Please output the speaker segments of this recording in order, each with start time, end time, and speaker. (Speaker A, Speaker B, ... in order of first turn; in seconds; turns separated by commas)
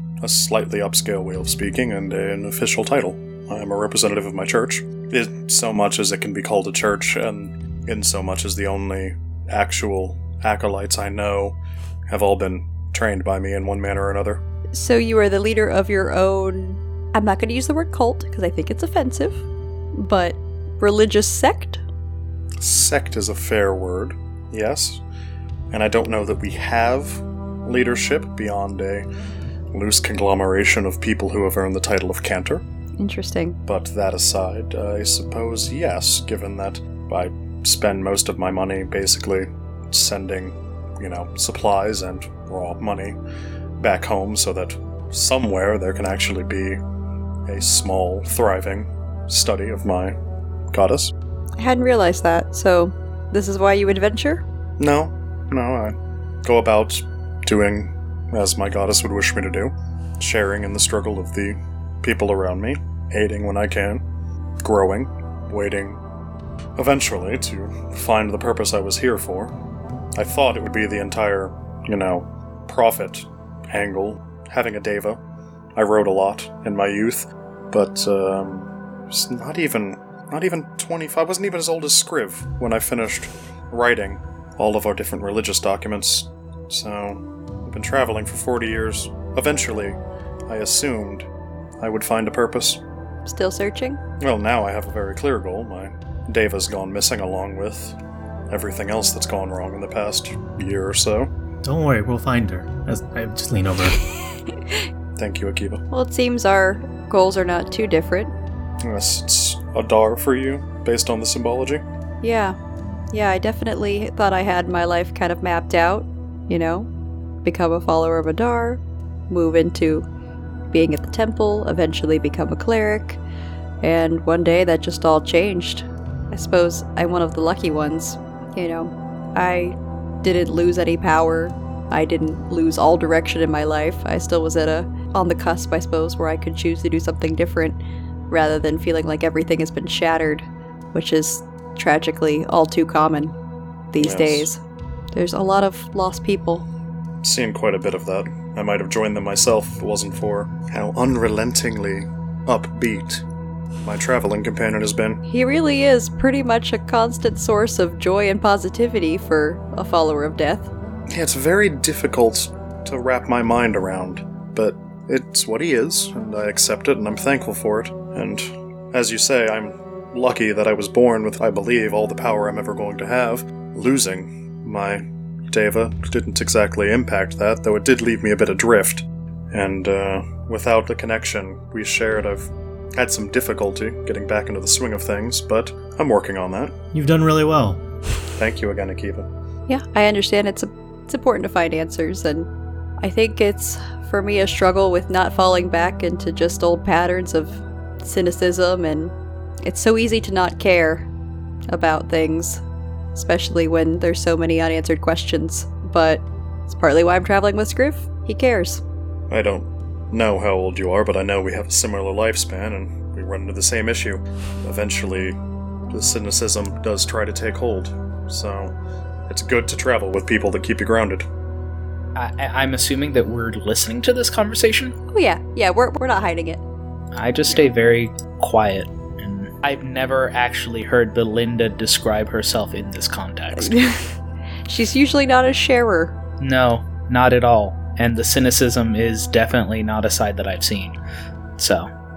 Speaker A: 0.2-11.6, Speaker A: 12.1-14.4, Speaker B: 14.7-19.4, Speaker B: 19.9-21.8, Speaker A: 22.6-25.0, Speaker A: 25.7-29.1, Speaker A: 29.7-32.6, Speaker B: 33.0-33.6, Speaker A: 33.7-43.2, Speaker A: 43.8-46.8, Speaker A: 47.5-50.2, Speaker A: 50.7-51.1, Speaker B: 51.6-54.4, Speaker A: 54.8-64.0, Speaker A: 64.6-66.0, Speaker A: 66.8-69.6, Speaker A: 70.2-75.2, Speaker A: 75.8-91.3, Speaker A: 91.8-92.8, Speaker B: 93.2-94.0, Speaker A: 94.2-98.0, Speaker A: 98.5-101.3, Speaker C: 101.6-104.0, Speaker A: 105.2-105.8, Speaker B: 105.9-108.3, Speaker A: 108.8-111.8, Speaker B: 112.2-112.6, Speaker B: 113.1-116.9, Speaker B: 117.4-120.0, Speaker B: 120.7-123.2, Speaker B: 123.8-137.8, Speaker B: 138.3-143.3, Speaker B: 143.9-144.6, Speaker A: 144.0-144.5, Speaker B: 145.1-146.7, Speaker A: 147.2-153.2, Speaker A: 153.8-155.2, Speaker B: 155.3-160.7, Speaker A: 161.1-186.8, Speaker C: 186.9-187.8, Speaker A: 188.3-189.3, Speaker B: 189.7-192.5, Speaker B: 193.0-201.1, Speaker B: 201.7-202.6, Speaker B: 203.1-208.8, Speaker A: 209.3-215.4, Speaker A: 215.9-218.8, Speaker A: 219.3-221.2, Speaker D: 222.2-224.9, Speaker B: 225.1-226.6, Speaker D: 227.2-233.8, Speaker B: 233.6-234.1, Speaker B: 234.7-236.2, Speaker D: 236.4-241.0, Speaker D: 241.6-241.9